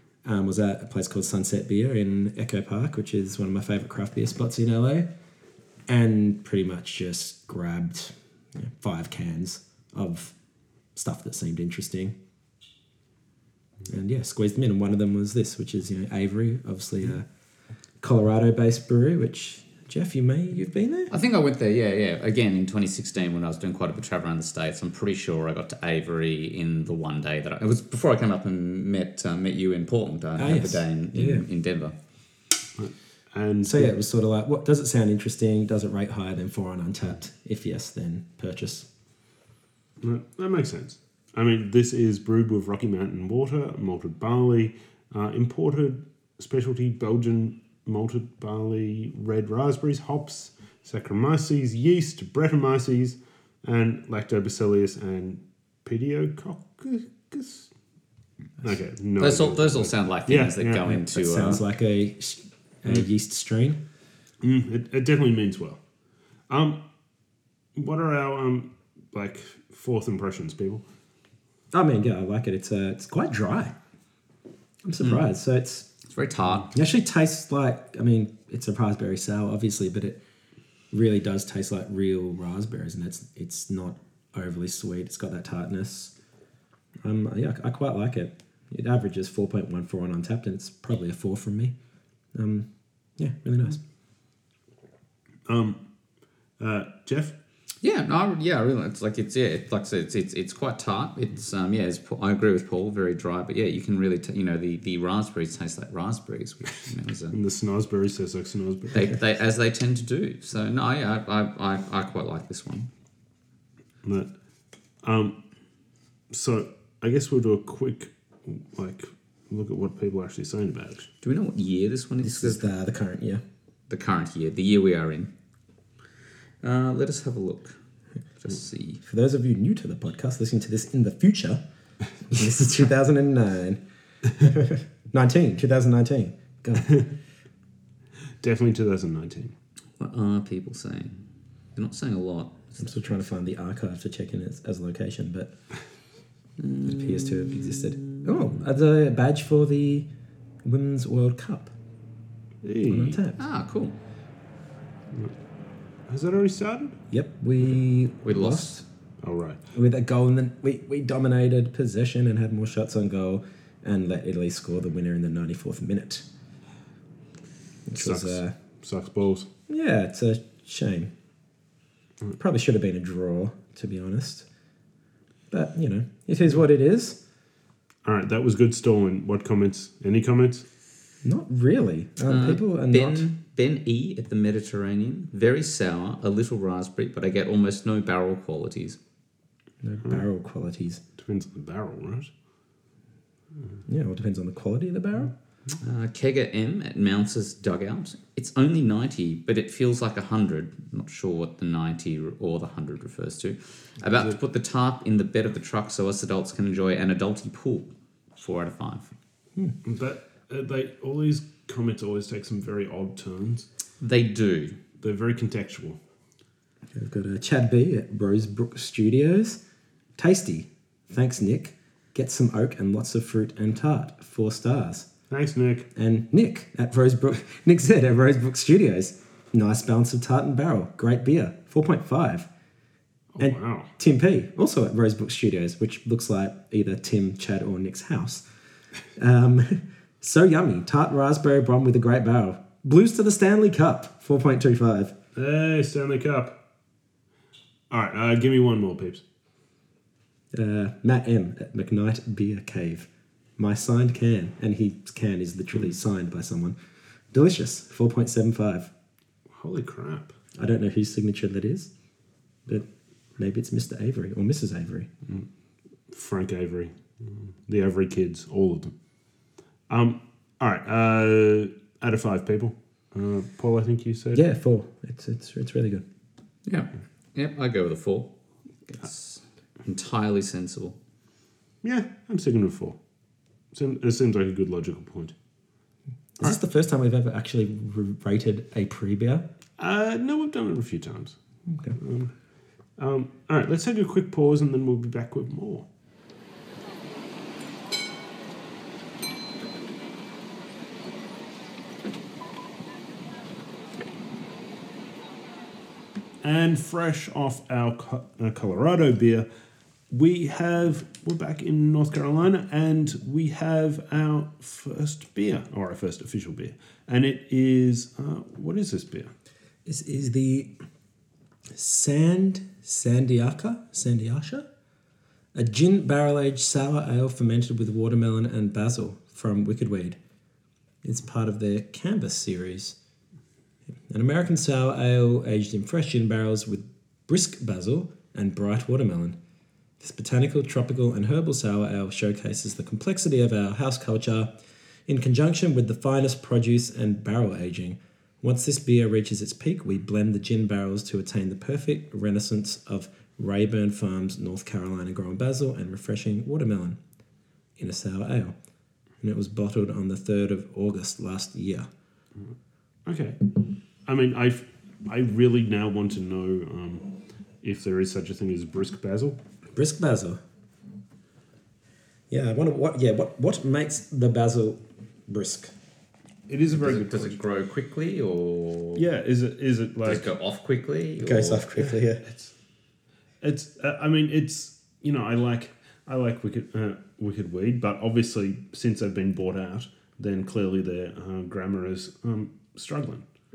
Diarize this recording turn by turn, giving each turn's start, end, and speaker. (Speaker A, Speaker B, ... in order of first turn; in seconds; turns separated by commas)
Speaker A: 0.2-5.0, Speaker A: 5.9-10.3, Speaker A: 10.9-12.2, Speaker A: 13.9-17.2, Speaker A: 18.0-21.1, Speaker B: 21.1-31.9, Speaker A: 30.4-31.5, Speaker C: 32.8-33.9, Speaker A: 33.6-38.9, Speaker C: 40.0-57.7, Speaker C: 58.6-60.9, Speaker B: 59.2-61.6, Speaker A: 61.0-63.8, Speaker C: 64.4-65.8, Speaker C: 66.5-66.8, Speaker C: 67.7-70.8, Speaker A: 71.7-73.7, Speaker A: 74.8-75.9, Speaker B: 76.1-76.7, Speaker A: 76.7-80.2, Speaker A: 80.9-86.1, Speaker A: 87.0-91.7, Speaker A: 92.3-93.8, Speaker C: 95.5-95.8, Speaker C: 96.6-97.3, Speaker B: 97.8-107.3, Speaker C: 107.3-109.1, Speaker B: 108.9-112.9, Speaker C: 114.0-114.3, Speaker C: 115.0-115.4, Speaker C: 116.3-121.1, Speaker B: 121.2-122.7, Speaker A: 122.2-123.4, Speaker B: 123.9-125.3, Speaker B: 126.6-127.8, Speaker B: 128.4-129.0, Speaker A: 129.0-131.6, Speaker A: 132.3-133.8, Speaker A: 134.4-136.9, Speaker C: 138.4-139.5, Speaker B: 140.0-143.1, Speaker A: 142.8-145.5, Speaker B: 146.6-148.3, Speaker A: 146.8-150.1, Speaker A: 150.6-151.7, Speaker C: 152.6-153.2, Speaker A: 152.9-153.4, Speaker B: 153.4-153.9, Speaker C: 156.1-157.0, Speaker A: 157.1-158.8, Speaker B: 158.2-158.8, Speaker C: 159.2-159.6, Speaker A: 159.7-166.2, Speaker A: 167.9-168.5, Speaker C: 167.9-169.5, Speaker A: 169.7-171.1, Speaker A: 172.4-174.5, Speaker A: 175.5-177.2, Speaker C: 178.0-180.6, Speaker A: 181.2-183.3, Speaker B: 182.2-189.0, Speaker A: 189.8-191.0, Speaker C: 191.2-192.3, Speaker A: 193.9-195.3, Speaker B: 195.8-209.1, Speaker C: 209.8-213.7, Speaker B: 214.0-214.8, Speaker C: 215.0-216.0, Speaker A: 216.9-219.6, Speaker A: 220.2-225.1, Speaker C: 225.3-225.9, Speaker A: 225.9-232.5, Speaker C: 233.3-233.9, Speaker A: 233.4-238.4, Speaker A: 239.2-245.2, Speaker C: 245.3-246.6, Speaker C: 247.9-249.2, Speaker A: 250.5-256.8, Speaker A: 257.3-258.9, Speaker C: 259.5-260.4, Speaker A: 260.6-261.9, Speaker A: 263.4-265.1, Speaker C: 266.1-268.9, Speaker C: 269.9-274.4, Speaker A: 274.3-276.0, Speaker B: 276.6-278.3, Speaker B: 278.9-280.9, Speaker C: 281.8-283.0, Speaker C: 283.7-285.3, Speaker A: 286.4-289.4, Speaker C: 289.8-291.4, Speaker A: 291.7-291.9, Speaker C: 292.0-292.3, Speaker C: 293.0-295.9, Speaker C: 306.4-309.4, Speaker C: 310.1-319.3, Speaker A: 319.8-320.7, Speaker A: 321.7-324.7, Speaker A: 325.5-330.2, Speaker A: 331.0-332.9, Speaker A: 334.1-339.4, Speaker A: 340.0-344.5, Speaker A: 345.1-357.0, Speaker A: 357.8-358.5, Speaker A: 359.2-361.9, Speaker C: 363.0-367.1, Speaker C: 367.6-369.4, Speaker A: 369.7-370.4, Speaker A: 372.3-375.7, Speaker C: 376.5-377.3, Speaker B: 376.7-379.0, Speaker C: 378.9-380.3, Speaker B: 380.0-381.7, Speaker A: 381.2-382.2, Speaker C: 382.2-382.5, Speaker C: 383.4-393.2